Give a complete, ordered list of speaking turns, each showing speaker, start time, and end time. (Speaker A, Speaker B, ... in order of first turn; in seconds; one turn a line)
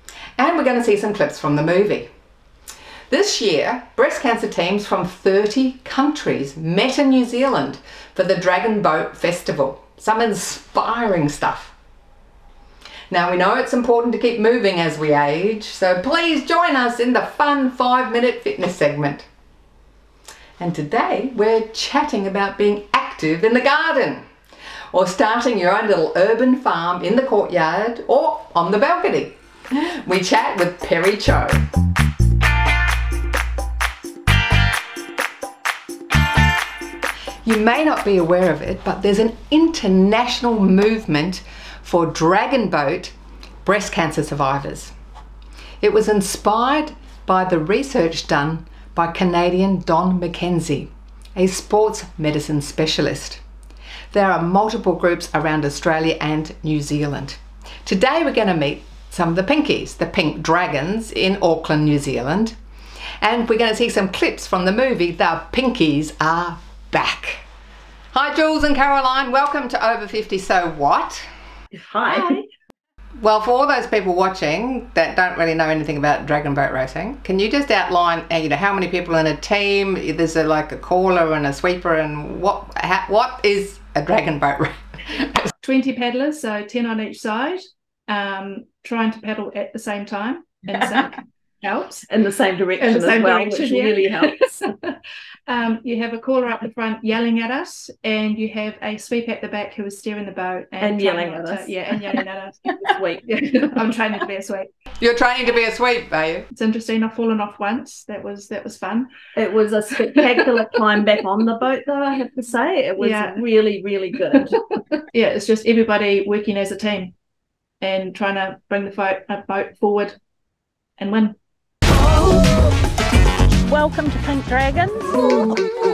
Speaker A: 0.4-2.1
Speaker A: 3.1-11.8
Speaker A: 13.1-19.3
Speaker A: 20.6-24.3
Speaker A: 24.9-31.7
Speaker A: 37.5-44.9
Speaker A: 45.8-53.4
Speaker A: 54.1-62.6
Speaker A: 63.2-67.5
Speaker A: 68.1-71.3
Speaker B: 71.7-72.5
Speaker A: 73.2-85.5
Speaker C: 85.6-92.1
Speaker B: 90.8-91.1
Speaker B: 92.1-94.7
Speaker C: 92.8-104.7
Speaker B: 100.8-102.2
Speaker B: 102.8-103.9
Speaker A: 105.0-106.5
Speaker C: 106.5-109.1
Speaker B: 109.4-115.0
Speaker C: 110.1-110.4
Speaker C: 113.0-113.5
Speaker C: 115.1-117.2
Speaker C: 117.8-120.2
Speaker C: 121.0-121.4
Speaker D: 123.7-125.7